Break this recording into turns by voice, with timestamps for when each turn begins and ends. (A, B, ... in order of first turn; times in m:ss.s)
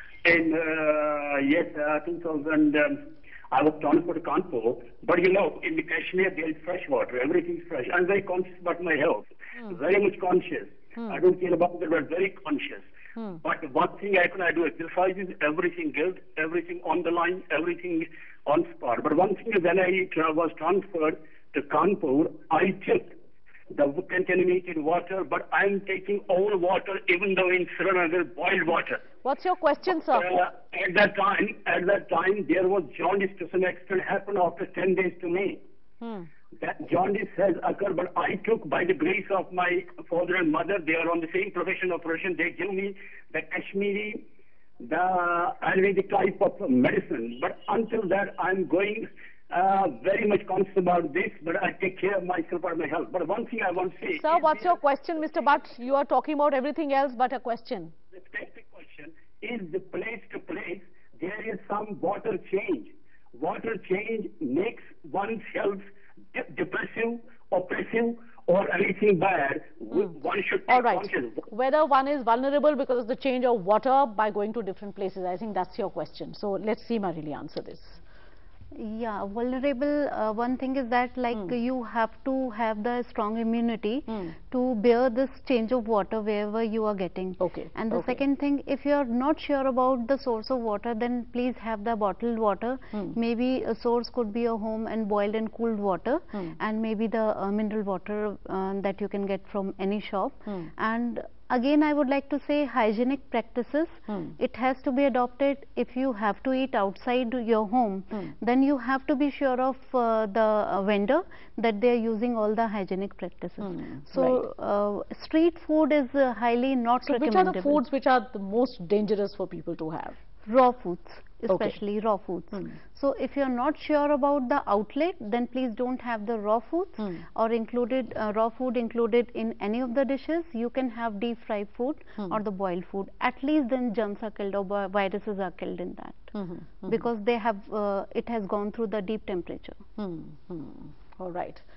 0:00.2-0:12.9 A
0:13.4-0:23.1 A
0:23.7-0:29.0 A
0:29.2-0:30.3 B
0:30.0-0:35.6 A
0:36.0-0:36.3 B
0:36.6-0:44.2 A
0:44.8-0:55.4 A
0:54.2-0:57.9 B
0:58.1-1:11.5 A
1:10.7-1:18.0 B
1:18.8-1:57.8 C
1:24.1-1:24.3 B
1:27.4-1:28.2 B
1:44.1-1:44.4 B
1:53.6-1:54.4 B
1:57.0-2:00.2 B
2:00.5-2:16.3 C
2:01.5-2:01.8 B
2:16.3-2:17.0 B
2:16.8-2:19.8 C
2:20.0-2:21.6 B